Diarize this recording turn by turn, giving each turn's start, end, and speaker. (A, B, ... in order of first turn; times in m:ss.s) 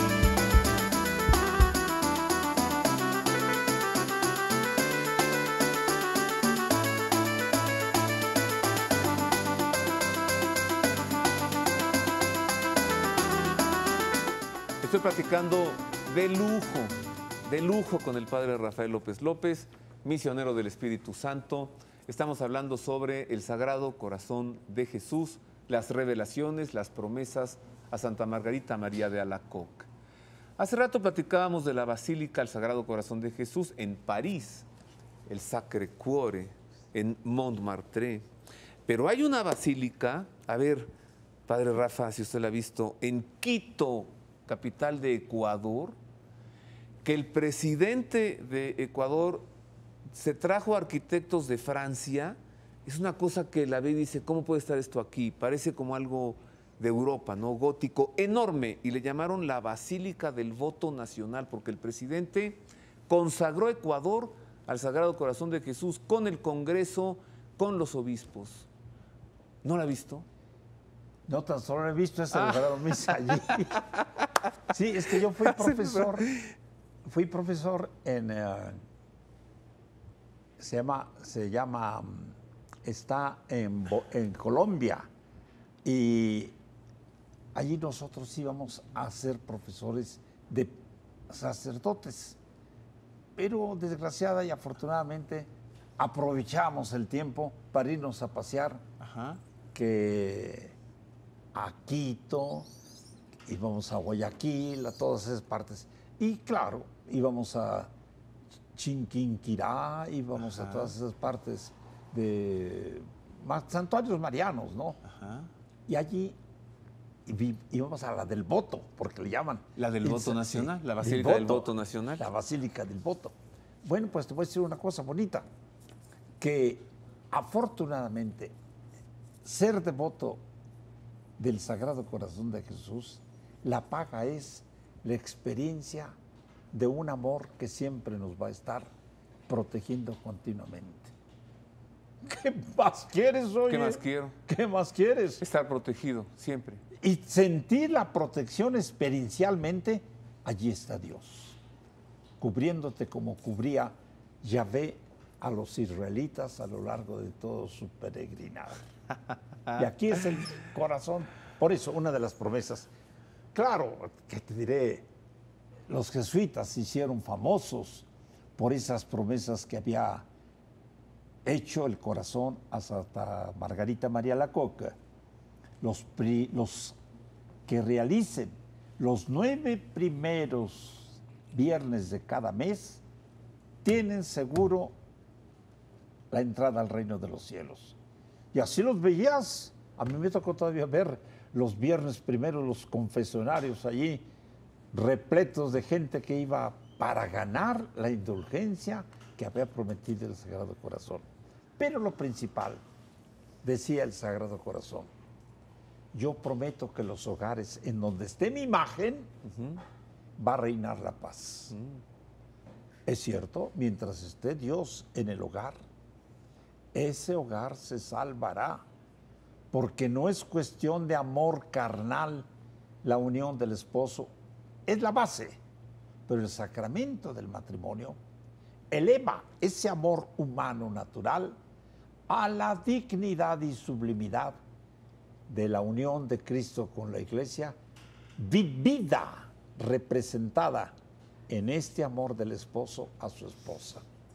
0:14.8-0:29.9 A
0:30.6-0:34.7 A
0:35.3-0:38.3 A
0:38.9-0:40.9 A
0:41.5-0:46.0 A
0:47.0-0:49.5 A
0:50.1-1:08.7 A
1:09.6-1:10.3 A
1:11.3-1:13.9 B
1:12.3-1:14.0 A
1:14.7-1:16.3 B
1:15.4-1:16.5 A
1:17.0-1:18.8 B
1:20.6-1:25.1 B
1:25.8-1:26.6 B
1:27.5-1:32.4 B
1:33.4-1:38.8 B
1:39.0-1:39.4 A
1:39.7-1:40.7 B
1:41.5-1:42.7 B
1:43.4-1:47.9 B
1:48.7-1:55.0 B
1:50.4-1:50.9 A
1:55.0-1:55.5 A
1:55.9-1:56.4 B
1:57.3-2:05.5 B
1:59.8-2:02.3 A
2:06.4-2:08.6 B
2:09.4-2:10.4 B
2:11.4-2:16.1 B
2:16.7-2:18.9 B
2:19.5-2:21.1 B
2:22.2-2:25.4 B
2:23.7-2:24.4 A
2:25.4-2:26.8 A
2:27.0-2:31.6 B
2:32.4-2:38.8 B
2:39.8-2:42.9 B
2:43.5-2:45.1 B
2:45.9-2:50.3 B
2:51.4-2:55.0 B
2:55.8-2:57.0 B
2:57.7-3:03.0 B
3:03.8-3:05.0 B
3:06.3-3:08.0 B
3:08.5-3:14.3 B
3:14.9-3:21.3 B
3:21.8-3:22.8 B
3:23.6-3:25.1 B
3:26.1-3:29.3 B
3:29.4-3:29.8 A
3:30.4-3:31.7 B
3:31.7-3:32.0 A
3:33.1-3:35.8 B
3:36.9-3:38.8 B
3:39.7-3:42.5 B
3:43.0-3:44.3 B
3:44.9-3:45.6 B
3:46.3-3:48.2 B
3:48.9-3:51.6 B
3:52.3-3:54.6 B
3:55.5-3:57.8 B
3:58.4-4:01.0 B
4:01.5-4:04.0 B